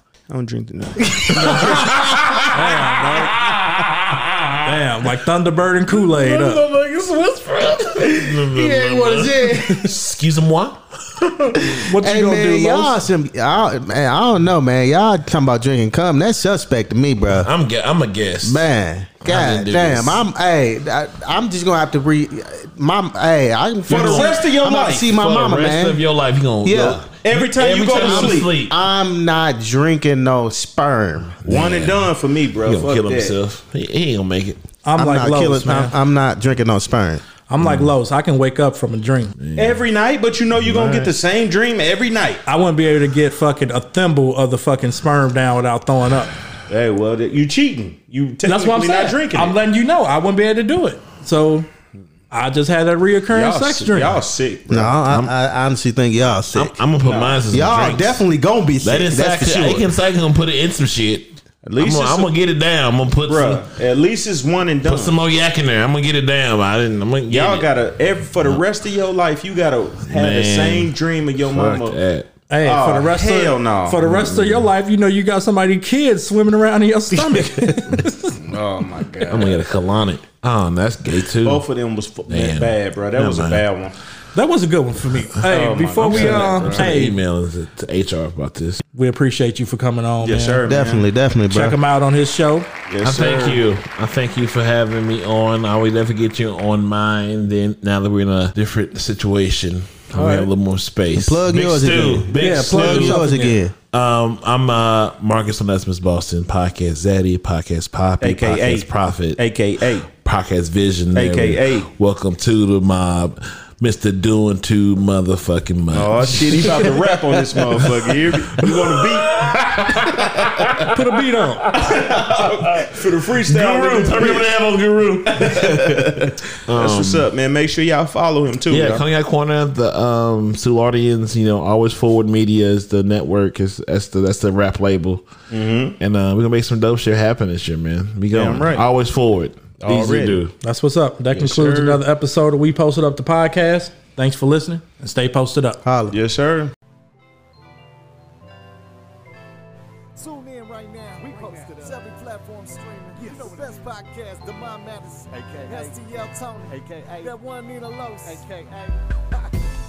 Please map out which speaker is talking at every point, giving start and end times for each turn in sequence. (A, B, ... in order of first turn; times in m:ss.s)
0:00.3-0:01.9 A
0:01.1-0:02.0 B
0:01.3-0:04.8 C
0:02.5-0:03.4 D
0:04.6-0:06.6 D
0:05.9-0:11.8 C
0:07.9-0:10.0 B
0:11.6-0:17.5 B
0:11.8-0:13.0 D
0:17.3-0:18.6 C
0:18.4-0:26.0 B
0:19.2-0:20.2 C
0:23.8-0:24.4 C
0:23.9-0:25.1 A
0:25.0-0:28.7 C
0:26.6-0:27.1 B
0:27.2-0:28.5 A
0:27.9-0:31.4 B
0:31.4-0:32.1 C
0:31.4-0:33.4 A
0:32.6-0:34.6 C
0:34.8-0:35.9 D
0:35.0-0:37.2 B
0:37.5-0:39.4 D
0:37.6-0:37.9 C
0:39.4-0:39.8 C
0:39.6-0:42.4 A
0:40.6-0:41.1 C
0:42.4-0:46.3 D
0:46.7-0:49.6 A
0:48.4-0:51.7 D
0:52.3-0:54.2 D
0:53.3-0:55.0 A
0:54.7-0:56.8 B
0:55.0-0:55.3 C
0:56.5-0:58.2 C
0:57.0-0:58.0 A
0:57.5-0:59.9 B
0:58.8-1:03.6 C
1:01.6-1:02.3 A
1:03.3-1:05.2 A
1:04.8-1:07.7 C
1:07.3-1:12.0 A
1:10.1-1:12.3 C
1:12.5-1:18.4 D
1:12.6-1:14.0 A
1:14.0-1:14.7 C
1:18.4-1:19.6 A
1:19.2-1:21.6 C
1:21.4-1:23.9 A
1:22.3-1:23.6 C
1:24.3-1:27.2 D
1:25.5-1:27.0 A
1:26.1-1:28.8 C
1:28.9-1:30.6 D
1:30.2-1:31.1 A
1:30.6-1:31.8 B
1:31.5-1:32.7 D
1:32.9-1:33.6 A
1:33.0-1:43.2 C
1:40.1-1:40.5 D
1:41.1-1:43.7 B
1:42.3-1:43.6 D
1:43.9-1:49.4 C
1:48.2-1:50.1 A
1:50.1-2:01.0 C
1:51.1-1:51.9 A
1:55.9-2:00.5 A
2:00.9-2:01.7 D
2:01.6-2:07.3 C
2:01.8-2:04.5 A
2:05.2-2:09.0 A
2:08.7-2:15.3 C
2:15.5-2:16.0 A
2:16.0-2:20.5 C
2:18.3-2:18.8 A
2:19.8-2:20.4 A
2:20.6-2:25.8 D
2:21.3-2:22.0 A
2:25.8-2:26.2 B
2:26.1-2:26.7 A
2:30.2-2:39.6 E